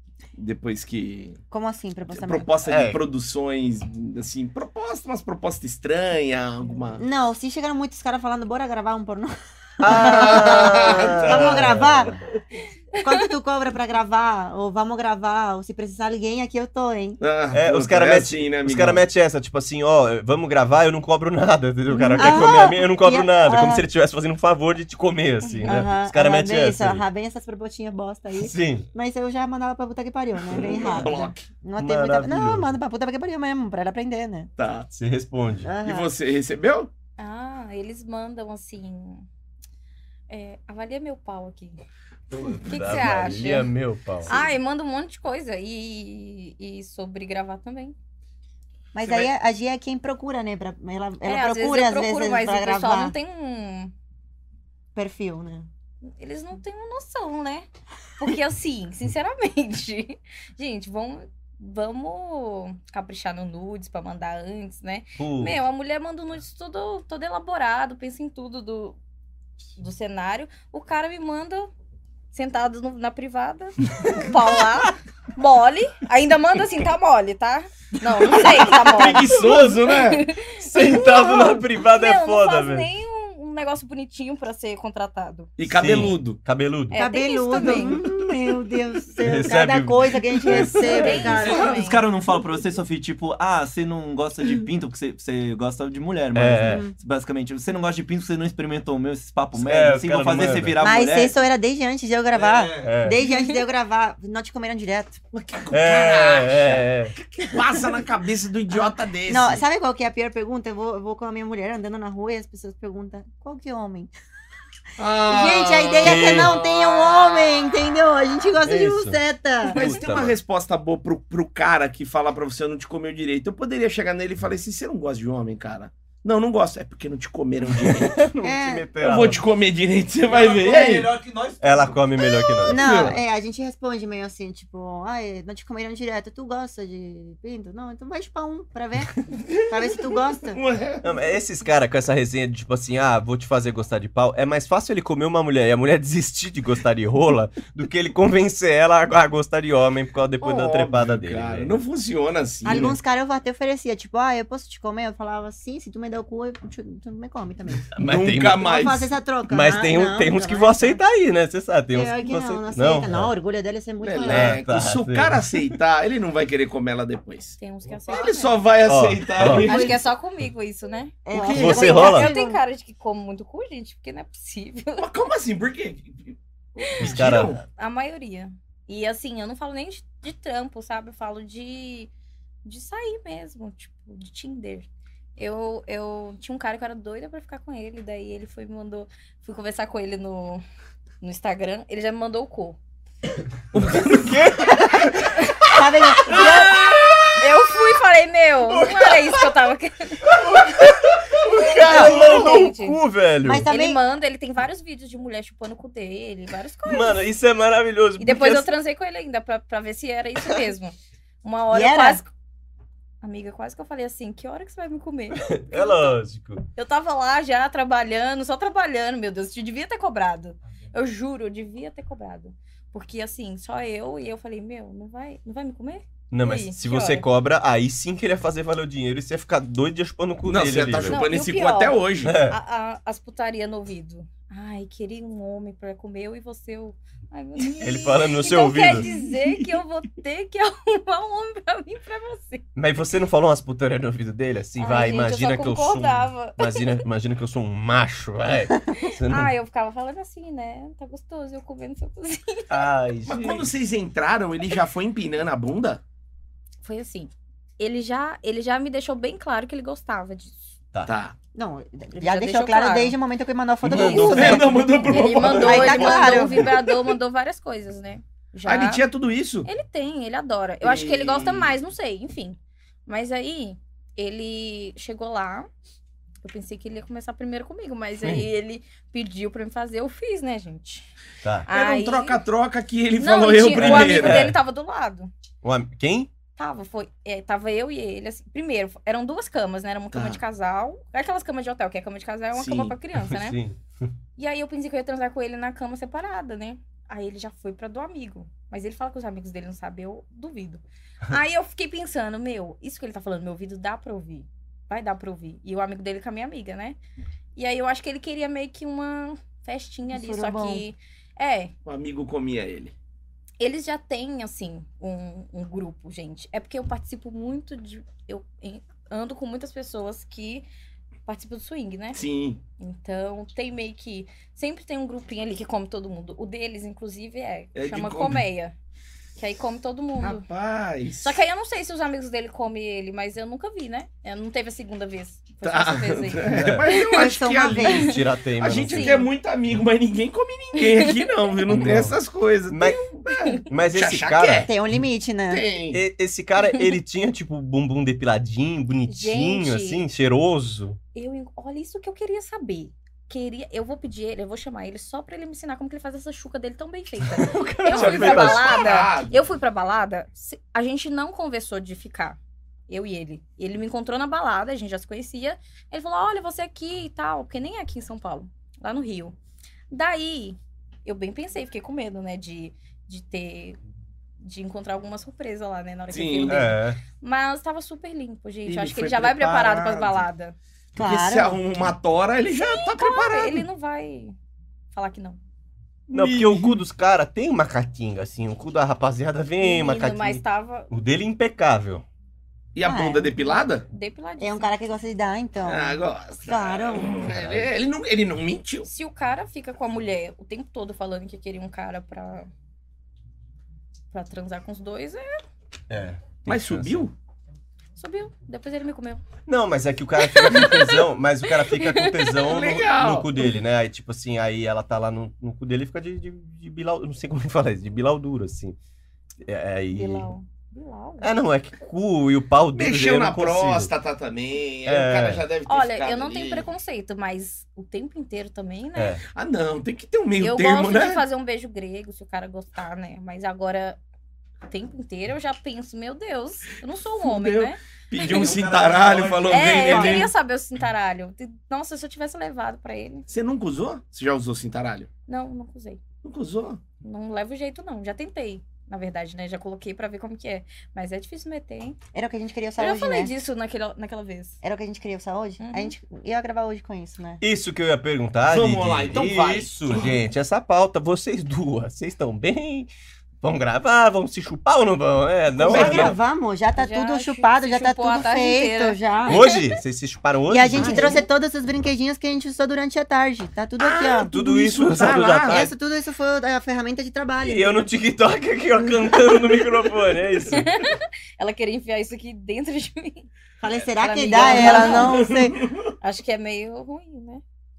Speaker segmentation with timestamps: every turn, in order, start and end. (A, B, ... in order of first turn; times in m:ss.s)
0:00.4-0:01.4 A
0:01.5-0:02.5 B
0:02.1-0:07.0 A
0:02.6-0:03.0 C
0:07.0-0:12.2 B
0:09.8-0:12.2 C
0:09.9-0:11.7 A
0:12.9-0:17.2 B
0:17.2-0:19.0 A
0:17.5-0:27.0 C
0:21.9-0:23.8 B
0:25.4-0:25.8 D
0:25.6-0:34.5 B
0:28.4-0:28.8 C
0:30.5-0:31.5 A
0:31.8-0:32.7 C
0:34.6-0:34.9 A
0:34.9-0:35.7 C
0:35.6-0:36.1 B
0:35.8-0:36.9 A
0:37.2-0:39.3 D
0:40.3-0:41.8 D
0:42.3-0:44.4 C
0:42.6-0:43.7 D
0:44.3-0:47.9 D
0:48.9-0:53.1 B
0:49.0-0:49.3 A
0:51.2-0:53.9 D
0:54.9-0:55.7 B
0:56.0-0:57.6 D
0:58.2-1:09.0 D
1:05.2-1:05.6 C
1:09.8-1:11.7 D
1:12.3-1:25.5 D
1:18.6-1:20.3 A
1:19.4-1:19.7 C
1:20.6-1:22.9 C
1:25.6-1:26.4 A
1:25.7-1:27.0 C
1:26.9-1:28.0 D
1:26.9-1:31.7 B
1:29.2-1:31.4 C
1:30.5-1:32.0 D
1:31.2-1:41.4 E
1:36.3-1:36.8 C
1:36.6-1:36.9 B
1:39.5-1:40.8 C
1:40.8-1:45.2 B
1:42.3-1:43.0 E
1:42.8-1:43.2 C
1:45.3-1:46.8 A
1:45.7-1:47.1 C
1:47.4-1:49.6 A
1:48.7-1:54.1 B
1:55.0-1:57.7 A
1:55.2-1:59.8 B
1:56.0-1:56.6 C
1:58.6-1:59.2 C
1:59.7-2:08.2 A
1:59.7-2:00.4 C
2:07.8-2:09.4 C
2:08.4-2:08.9 B
2:09.0-2:11.1 A
2:10.3-2:12.1 E
2:11.6-2:13.2 C
2:12.6-2:20.6 B
2:12.7-2:13.1 A
2:19.5-2:21.0 A
2:21.0-2:31.8 C
2:30.4-2:33.0 A
2:32.6-2:37.9 B
2:37.9-2:38.7 C
2:38.0-2:39.1 A
2:38.5-2:41.0 B
2:39.5-2:43.3 C
2:41.9-2:44.6 B
2:44.0-2:50.0 A
2:44.2-2:45.6 C
2:47.6-2:48.6 D
2:48.8-2:49.7 C
2:49.4-2:55.0 D
2:49.5-2:50.0 B
2:51.2-2:52.6 B
2:51.3-2:51.9 A
2:51.5-2:52.3 C
2:55.0-2:57.6 A
2:57.0-2:57.6 C
2:57.8-3:02.1 D
3:02.6-3:10.6 D
3:11.2-3:12.8 D
3:13.7-3:14.4 A
3:13.8-3:15.5 C
3:15.6-3:16.8 B
3:16.2-3:17.4 C
3:16.3-3:16.6 D
3:17.4-3:20.3 D
3:18.7-3:19.5 C
3:20.3-3:23.7 C
3:21.5-3:23.0 D
3:21.8-3:22.6 B
3:23.4-3:24.0 B
3:23.7-3:27.2 D
3:26.8-3:28.7 C
3:28.2-3:32.3 D
3:31.7-3:32.2 B
3:33.2-3:36.2 D
3:35.3-3:36.6 C
3:36.8-3:47.2 D
3:46.3-3:51.2 C
3:50.5-3:52.4 A
3:51.1-4:02.6 D
3:52.2-3:52.6 C
3:57.8-3:59.1 C
3:59.0-3:59.3 A
4:02.8-4:09.5 C
4:04.8-4:07.0 D
4:09.0-4:12.8 D
4:12.7-4:13.7 C
4:13.2-4:16.0 A
4:16.8-4:20.7 D
4:21.0-4:21.4 A
4:21.5-4:24.8 B
4:22.2-4:23.2 D
4:23.8-4:24.8 C
4:23.9-4:29.0 D
4:24.3-4:26.2 A
4:25.4-4:26.7 C
4:25.6-4:26.7 B
4:28.6-4:29.7 A
4:29.6-4:35.7 D
4:30.8-4:31.7 A
4:36.4-4:41.1 D
4:41.4-4:41.7 C
4:41.7-4:42.4 D
4:41.7-4:44.5 A
4:43.2-4:45.3 D
4:43.7-4:44.6 C
4:45.6-4:46.3 C
4:46.6-4:53.6 D
4:50.1-4:50.4 A
4:52.5-4:52.9 A
4:53.2-4:53.8 C
4:54.4-5:07.0 D
5:07.6-5:11.7 D
5:10.1-5:10.8 B
5:11.8-5:12.9 A
5:13.6-5:20.6 D
5:21.2-5:22.2 D
5:22.1-5:22.6 A
5:22.8-5:28.7 D
5:27.7-5:28.4 A
5:29.4-5:30.4 D
5:30.2-5:31.4 A
5:31.2-5:37.3 D
5:35.6-5:44.7 A
5:36.5-5:36.8 C
5:37.0-5:38.1 B
5:37.8-5:38.2 D
5:37.8-5:39.2 C
5:38.8-5:39.3 D
5:40.8-5:41.1 D
5:41.7-5:42.2 C
5:42.7-5:43.0 C
5:43.3-5:43.6 D
5:43.6-5:44.7 C
5:44.6-5:45.6 B
5:45.5-5:46.0 A
5:45.9-5:51.0 C
5:49.1-5:50.0 D
5:51.1-6:02.4 D
5:57.3-5:58.9 C
5:57.9-5:59.4 A
6:02.9-6:09.4 D
6:09.9-6:13.8 D
6:14.4-6:20.6 D
6:16.1-6:16.6 A
6:16.5-6:17.0 C
6:18.6-6:20.2 A
6:21.0-6:21.6 B
6:21.0-6:23.6 A
6:22.6-6:24.4 D
6:24.9-6:25.4 D
6:26.1-6:26.8 A
6:26.1-6:32.0 C
6:29.6-6:30.9 D
6:32.7-6:33.8 A
6:32.8-6:33.3 B
6:33.4-6:34.7 D
6:34.4-6:37.2 B
6:35.6-6:38.9 A
6:37.2-6:37.7 C
6:38.9-6:42.5 D
6:44.1-6:45.3 D
6:45.9-6:47.1 C
6:46.4-6:47.1 A
6:48.0-6:49.2 D
6:49.5-6:58.8 C
6:50.2-6:52.6 D
6:52.4-6:53.3 A
6:59.4-7:00.3 C
6:59.9-7:01.3 D
7:01.2-7:03.9 C
7:02.7-7:06.7 A
7:04.8-7:05.4 C
7:05.7-7:09.2 D
7:09.0-7:09.2 C
7:09.3-7:11.2 A
7:10.4-7:14.0 D
7:14.7-7:18.5 D
7:17.2-7:20.3 A
7:18.3-7:19.8 E
7:19.5-7:23.3 D
7:19.9-7:20.3 B
7:23.3-7:25.1 A
7:25.3-7:26.0 D
7:26.2-7:26.8 A
7:27.0-7:32.0 D
7:32.1-7:33.3 B
7:32.8-7:34.6 D
7:34.6-7:37.4 B
7:35.6-7:35.9 D
7:37.4-7:42.9 C
7:38.5-7:40.1 A
7:43.4-7:46.2 C
7:45.6-7:46.2 A
7:45.6-7:49.4 B
7:46.7-7:49.8 D
7:49.3-7:51.2 C
7:50.5-7:54.3 B
7:50.7-7:51.3 D
7:53.8-7:55.6 A
7:54.3-7:55.7 C
7:55.5-7:57.9 B
7:57.4-8:00.7 C
8:00.4-8:03.3 D
8:03.6-8:05.6 B
8:03.9-8:05.3 D
8:04.3-8:05.9 A
8:06.0-8:07.4 D